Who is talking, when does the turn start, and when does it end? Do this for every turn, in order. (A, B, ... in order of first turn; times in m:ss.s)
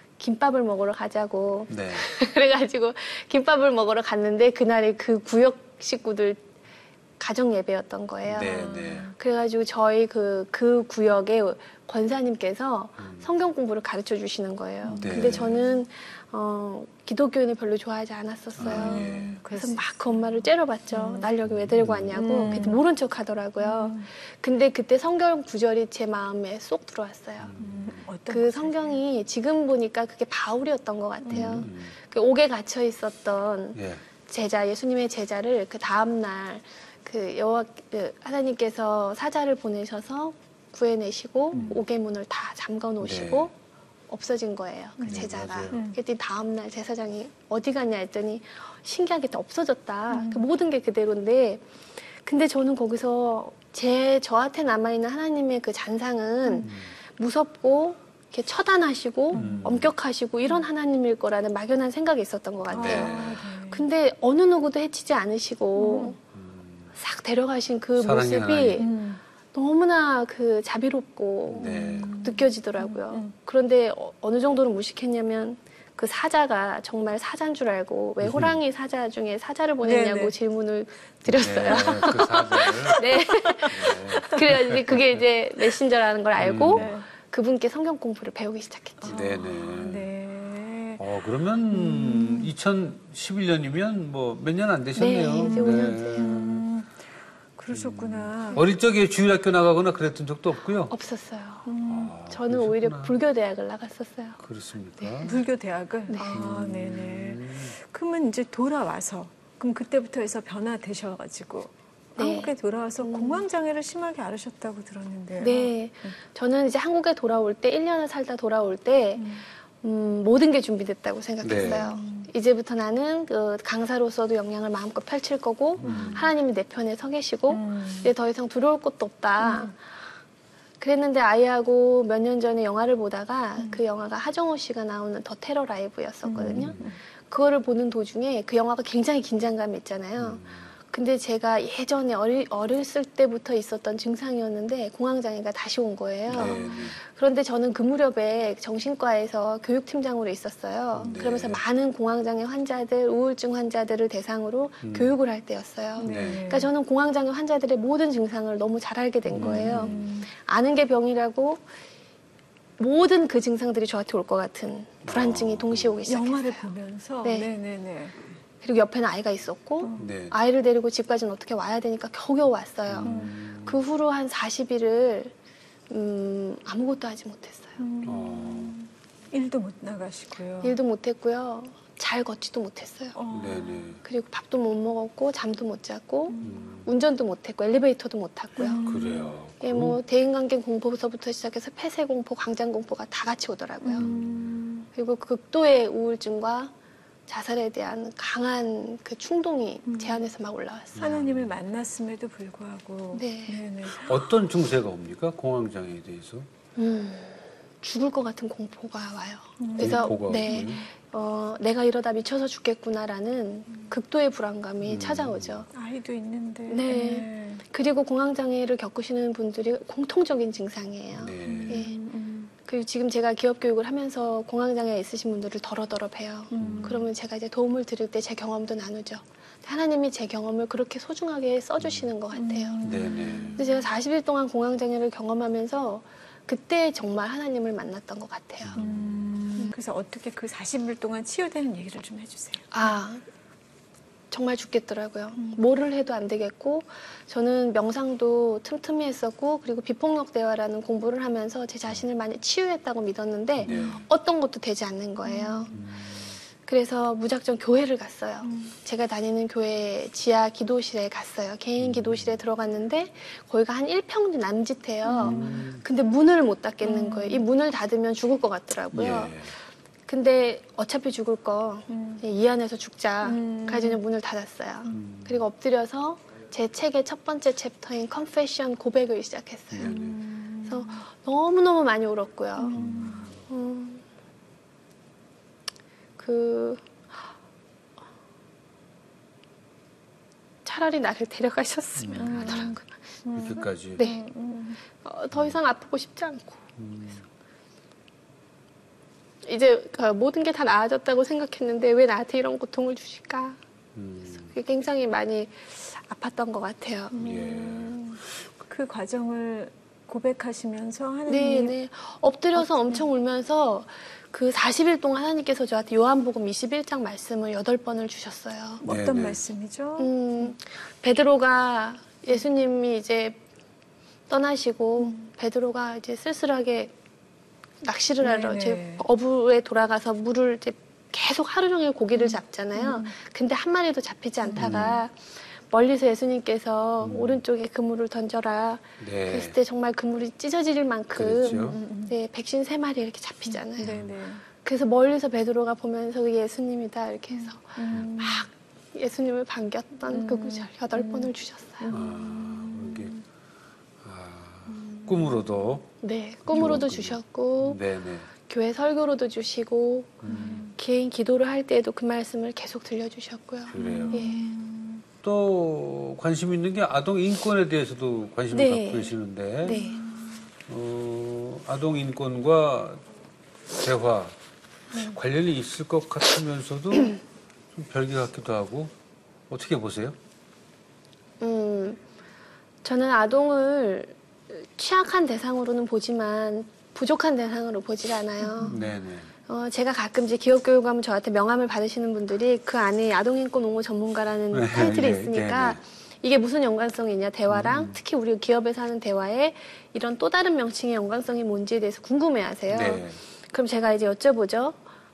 0:00.2-0:06.4 A
0:01.7-0:02.1 B
0:07.2-0:08.6 A
0:08.2-0:09.1 B
0:08.4-0:09.1 C
0:09.2-0:27.5 A
0:13.0-0:13.2 B
0:14.8-0:15.6 C
0:15.0-0:15.6 B
0:18.6-0:19.4 B
0:18.6-0:19.9 C
0:20.9-0:21.3 C
0:21.4-0:22.7 B
0:22.1-0:22.8 C
0:23.6-0:24.1 C
0:27.4-0:28.1 B
0:27.6-0:29.0 C
0:28.3-0:43.5 A
0:31.2-0:31.7 C
0:31.3-0:31.9 B
0:33.7-0:34.0 B
0:41.5-0:41.8 B
0:43.0-0:43.5 B
0:44.1-1:06.2 A
0:45.0-0:46.0 C
0:45.0-0:45.8 B
0:50.1-0:50.4 C
0:56.4-0:56.7 C
0:56.6-0:56.9 B
0:59.3-0:59.7 C
0:59.3-0:59.9 B
1:02.7-1:03.8 C
1:02.7-1:03.4 B
1:05.8-1:06.2 C
1:06.3-1:06.9 B
1:07.0-1:08.9 A
1:08.0-1:08.8 B
1:08.8-1:09.2 C
1:09.5-1:29.2 A
1:11.5-1:12.1 B
1:11.6-1:13.3 C
1:18.2-1:18.6 B
1:19.8-1:20.4 C
1:21.2-1:23.0 B
1:23.0-1:24.5 C
1:23.6-1:25.2 B
1:26.4-1:26.9 B
1:26.7-1:27.1 C
1:29.0-1:31.0 C
1:29.0-1:30.1 B
1:31.0-1:36.6 B
1:31.7-1:32.5 C
1:35.0-1:36.3 A
1:35.4-1:37.0 C
1:37.6-1:38.6 C
1:37.7-1:40.9 B
1:40.9-1:41.7 A
1:41.7-1:42.1 C
1:41.8-1:43.1 B
1:42.2-1:44.4 A
1:44.4-1:45.4 B
1:45.2-1:56.2 C
1:46.1-1:46.4 A
1:46.3-1:47.7 B
1:52.2-1:53.4 A
1:55.4-2:09.7 A
1:59.2-1:59.4 C
2:01.4-2:02.0 B
2:01.6-2:02.3 C
2:05.8-2:06.3 B
2:05.8-2:06.3 C
2:07.5-2:08.1 C
2:09.4-2:09.7 C
2:10.8-2:41.6 A
2:16.2-2:17.0 C
2:16.4-2:16.8 B
2:20.2-2:20.7 B
2:26.3-2:27.0 B
2:26.3-2:26.9 C
2:30.9-2:31.6 B
2:34.8-2:35.1 B
2:36.0-2:36.7 C
2:36.0-2:36.5 B
2:39.3-2:40.1 B
2:39.4-2:40.3 C
2:42.8-2:46.7 A
2:45.0-2:46.0 B
2:46.0-2:48.2 C
2:47.2-2:47.5 A
2:48.6-2:55.3 A
2:49.8-2:50.1 C
2:50.0-2:50.4 B
2:52.9-2:53.8 B
2:53.0-2:53.3 C
2:55.9-2:57.8 A
2:57.8-3:00.8 C
2:58.0-2:58.8 B
3:00.6-3:03.2 A
3:03.1-3:03.9 C
3:03.3-3:04.0 B
3:04.0-3:08.8 A
3:06.3-3:06.6 C
3:06.4-3:06.9 B
3:08.6-3:09.3 C
3:08.8-3:10.0 B
3:09.6-3:14.1 A
3:13.8-3:14.9 C
3:14.0-3:14.6 B
3:15.0-3:16.7 A
3:17.3-3:21.0 A
3:19.9-3:20.2 C
3:20.9-3:21.5 B
3:21.0-3:24.2 C
3:23.1-3:23.6 A
3:23.9-3:26.5 B
3:26.8-3:35.7 A
3:29.6-3:30.8 C
3:29.8-3:30.8 B
3:34.8-3:35.6 B
3:35.7-3:37.6 C
3:36.7-3:42.0 A
3:41.1-3:41.9 B
3:41.4-3:42.5 C
3:42.6-3:52.8 A
3:46.5-3:47.1 C
3:46.6-3:47.0 B
3:51.8-3:52.1 B
3:52.3-3:53.8 C
3:52.8-3:53.6 B
3:53.6-3:58.8 A
3:58.6-3:59.3 B
3:58.8-4:02.9 C
4:02.7-4:03.2 A
4:04.3-4:15.7 A
4:13.6-4:14.0 B
4:13.7-4:14.0 C
4:15.2-4:15.8 C
4:15.7-4:16.4 B
4:16.6-4:29.5 A
4:18.4-4:18.7 C
4:21.8-4:22.4 B
4:25.0-4:25.7 C
4:25.2-4:25.8 B
4:26.8-4:27.4 C
4:28.9-4:29.5 B
4:30.1-4:40.0 A
4:31.9-4:32.2 C
4:33.2-4:34.0 C
4:34.9-4:35.4 B
4:39.7-4:40.2 B
4:39.8-4:41.0 C
4:40.6-4:44.0 A
4:42.6-4:43.3 C
4:42.8-4:43.4 B
4:46.2-4:46.9 A
4:50.6-4:52.8 A
4:52.0-4:52.7 B
4:52.2-4:54.8 C
4:53.3-4:54.0 B
4:54.0-4:54.2 A
4:55.0-4:56.6 A
4:56.8-4:57.2 B
4:59.4-5:03.6 A
5:03.9-5:04.5 B
5:04.5-5:07.2 A
5:07.1-5:11.7 C
5:07.2-5:08.2 B
5:11.3-5:18.8 A
5:12.5-5:13.0 C
5:18.8-5:20.5 C
5:18.8-5:19.4 B
5:20.0-5:23.4 A
5:24.3-5:26.9 A
5:27.8-5:35.2 A
5:28.2-5:29.0 C
5:32.1-5:33.1 C
5:34.4-5:34.9 C
5:34.5-5:35.0 B
5:35.7-5:44.0 A
5:37.0-5:37.4 B
5:39.0-5:39.6 B
5:41.1-5:41.8 B
5:41.5-5:42.1 C
5:43.5-5:44.4 C
5:43.8-5:44.1 B
5:44.6-5:51.9 A
5:47.3-5:48.5 C
5:50.1-5:53.2 C
5:51.9-5:53.2 B
5:54.0-5:55.9 B
5:54.7-5:55.7 C
5:56.0-5:57.8 A
5:56.4-5:58.3 B
5:58.4-6:04.4 A
6:00.2-6:00.6 B
6:00.2-6:00.7 C
6:03.7-6:04.3 B
6:03.7-6:05.0 C
6:05.2-6:09.8 B
6:08.5-6:10.0 A
6:09.7-6:10.0 C
6:10.7-6:13.0 B
6:13.8-6:14.3 B
6:14.9-6:17.2 B
6:17.7-6:18.9 B
6:19.5-6:20.2 B
6:21.4-6:22.0 A
6:22.8-6:28.8 A
6:28.4-6:28.8 C
6:28.6-6:29.3 B
6:29.5-6:44.8 A
6:34.5-6:35.8 B
6:37.5-6:38.0 B
6:42.7-6:43.2 B